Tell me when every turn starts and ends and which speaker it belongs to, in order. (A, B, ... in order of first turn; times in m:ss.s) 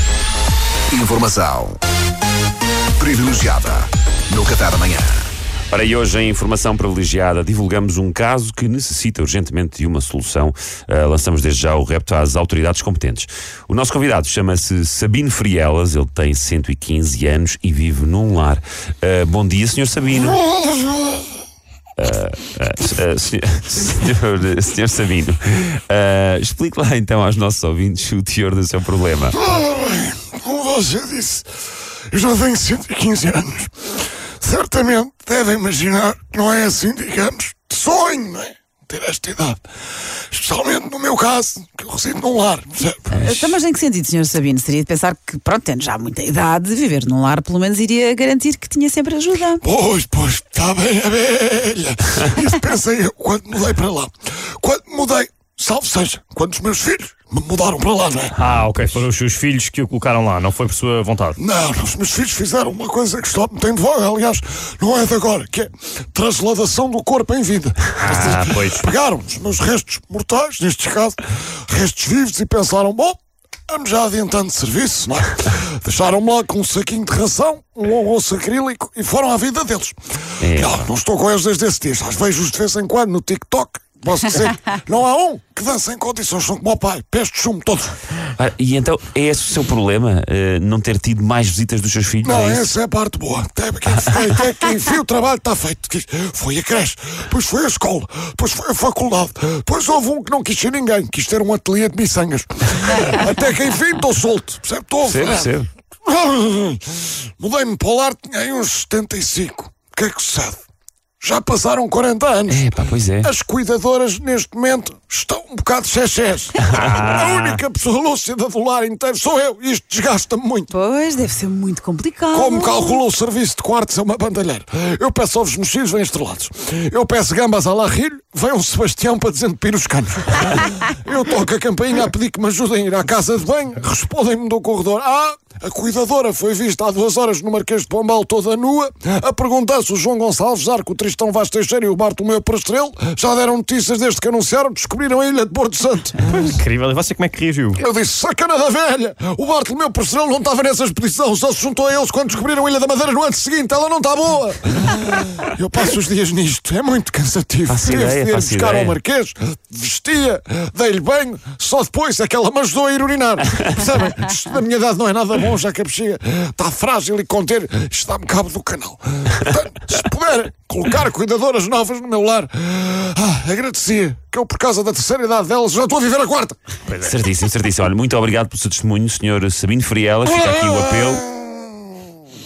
0:00.9-0:01.8 A
0:03.0-0:05.3 A
0:05.7-0:20.4 B
0:22.0-0:29.4 B
0:29.4-0:31.5 C
0:32.1-0:33.9 C
0:34.4-0:39.6 C
0:40.3-0:43.1 C
0:43.1-0:49.6 D
0:43.2-0:43.5 B
0:49.6-0:58.4 C
0:58.3-1:01.4 E
1:01.4-1:28.0 C
1:08.0-1:08.8 E
1:20.4-1:20.9 B
1:28.4-1:32.7 B
1:32.2-1:50.6 C
1:45.0-1:45.7 B
1:51.2-2:00.7 C
1:52.5-1:53.3 B
1:56.7-1:57.6 E
2:00.7-2:03.0 D
2:02.3-2:26.2 C
2:26.2-2:27.8 E
2:27.8-2:56.6 C
2:37.7-2:39.0 B
2:56.9-3:01.2 B
3:00.4-3:01.7 C